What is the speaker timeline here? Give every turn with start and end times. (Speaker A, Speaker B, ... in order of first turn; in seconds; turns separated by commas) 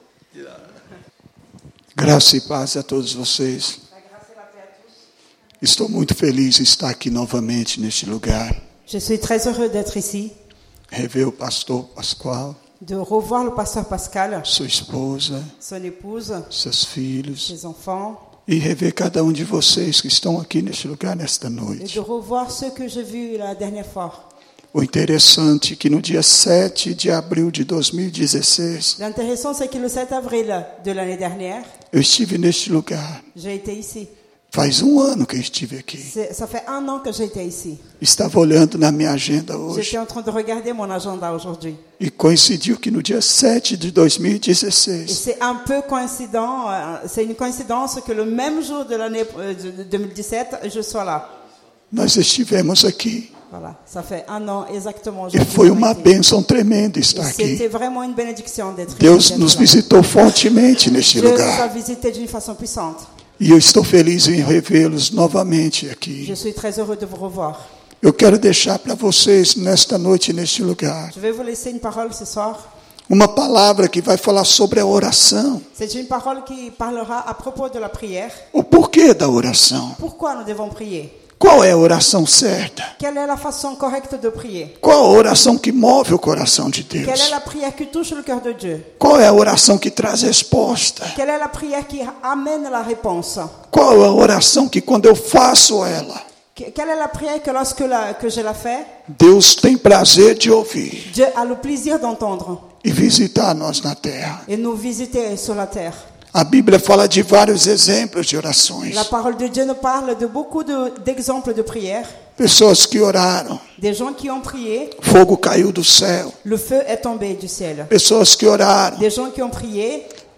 Speaker A: 1.9-3.8, Speaker B: 4.0-4.8, Speaker A: 5.6-8.6, Speaker B: 8.9-10.3, Speaker A: 10.9-12.6, Speaker B: 12.8-14.5, Speaker A: 14.5-15.5, Speaker B: 15.6-16.5, Speaker A: 16.5-17.5, Speaker B: 17.4-18.3, Speaker A: 18.5-22.0, Speaker B: 21.8-24.2, Speaker A: 24.7-28.9, Speaker B: 29.0-31.7, Speaker A: 31.9-33.2, Speaker B: 33.3-34.1, Speaker A: 34.5-36.1, Speaker B: 36.0-37.8, Speaker A: 38.0-40.0, Speaker B: 39.7-41.8, Speaker A: 42.0-45.2, Speaker B: 45.1-51.3, Speaker A: 51.9-53.3, Speaker B: 53.5-56.1, Speaker A: 55.3-57.6, Speaker B: 57.1-59.8, Speaker A: 58.9-61.6, Speaker B: 61.1-63.0, Speaker A: 63.4-66.3, Speaker B: 66.2-67.7, Speaker A: 68.0-71.1, Speaker B: 71.1-72.7, Speaker A: 73.1-75.6, Speaker B: 75.8-78.4, Speaker A: 78.5-80.0, Speaker B: 80.0-81.2, Speaker A: 81.4-82.9, Speaker B: 83.0-84.8, Speaker A: 84.8-87.3, Speaker B: 87.0-88.9, Speaker A: 89.0-91.2, Speaker B: 91.1-93.5, Speaker A: 93.7-96.2, Speaker B: 96.5-98.9, Speaker A: 99.1-101.1, Speaker B: 101.0-102.7, Speaker A: 102.8-104.4, Speaker B: 104.5-106.0, Speaker A: 106.3-109.1, Speaker B: 108.9-112.1, Speaker A: 112.4-113.6, Speaker B: 113.8-115.0, Speaker A: 115.0-116.3, Speaker B: 116.4-117.9, Speaker A: 117.9-119.0, Speaker B: 119.0-120.1